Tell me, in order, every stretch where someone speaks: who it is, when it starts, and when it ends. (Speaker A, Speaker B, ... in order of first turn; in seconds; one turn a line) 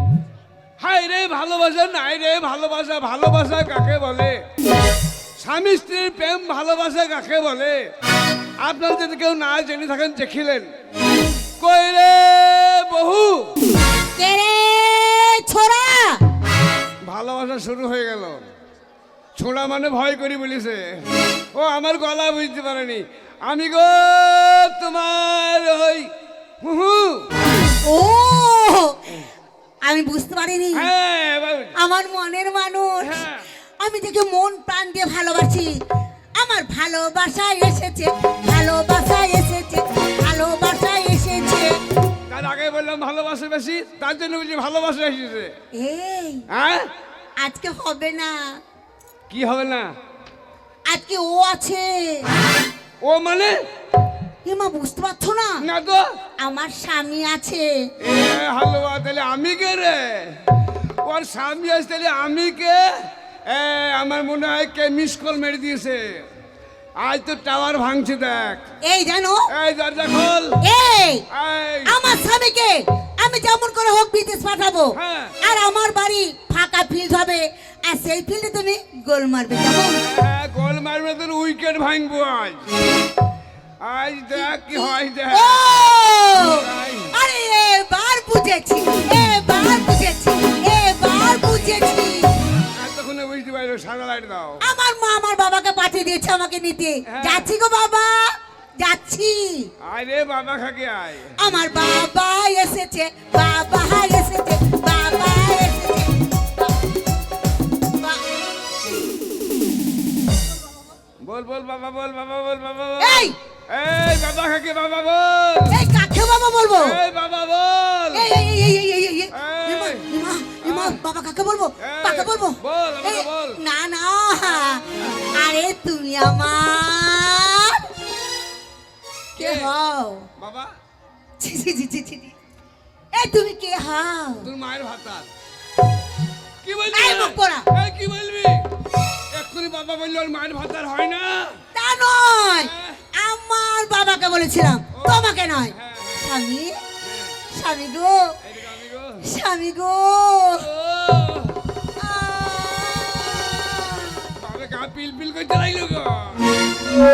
Speaker A: 0.8-4.4
Speaker A: 5.4-7.9
Speaker A: 8.6-10.7
Speaker A: 11.6-13.6
Speaker B: 14.2-16.2
Speaker A: 17.0-18.4
Speaker A: 19.4-27.3
Speaker B: 27.6-29.0
Speaker B: 29.8-30.9
Speaker A: 30.7-31.7
Speaker B: 31.8-33.2
Speaker A: 33.0-33.5
Speaker B: 33.8-35.8
Speaker B: 36.4-41.8
Speaker A: 42.3-45.5
Speaker B: 45.7-46.5
Speaker A: 46.5-46.9
Speaker B: 47.4-48.6
Speaker A: 49.3-49.9
Speaker B: 50.9-52.3
Speaker A: 53.0-53.6
Speaker B: 54.4-55.6
Speaker A: 55.6-56.2
Speaker B: 56.4-57.7
Speaker A: 58.0-66.2
Speaker A: 67.0-68.6
Speaker B: 68.8-69.4
Speaker A: 69.5-70.6
Speaker B: 70.6-71.2
Speaker A: 71.3-72.0
Speaker B: 71.8-80.0
Speaker A: 74.9-75.4
Speaker A: 80.0-82.7
Speaker A: 83.8-85.7
Speaker B: 84.4-92.3
Speaker A: 86.5-87.1
Speaker A: 92.6-94.7
Speaker B: 94.6-99.7
Speaker A: 97.0-97.5
Speaker A: 99.8-101.3
Speaker B: 101.4-106.7
Speaker A: 111.2-115.8
Speaker B: 113.0-113.3
Speaker B: 115.7-117.0
Speaker A: 116.7-118.3
Speaker B: 118.1-127.9
Speaker A: 119.3-120.1
Speaker A: 120.6-121.0
Speaker A: 121.8-123.6
Speaker A: 125.0-125.3
Speaker A: 129.3-129.7
Speaker B: 129.4-130.3
Speaker A: 130.4-130.7
Speaker B: 131.4-132.3
Speaker B: 133.1-134.5
Speaker A: 134.4-135.3
Speaker A: 136.6-138.7
Speaker B: 136.9-137.7
Speaker A: 139.3-141.6
Speaker B: 141.7-146.8
Speaker A: 142.6-143.1
Speaker A: 144.9-146.3
Speaker A: 147.0-147.4
Speaker B: 147.5-148.3
Speaker A: 148.4-149.3
Speaker B: 149.2-150.7
Speaker A: 150.6-151.7
Speaker B: 151.9-154.3
Speaker A: 154.4-156.5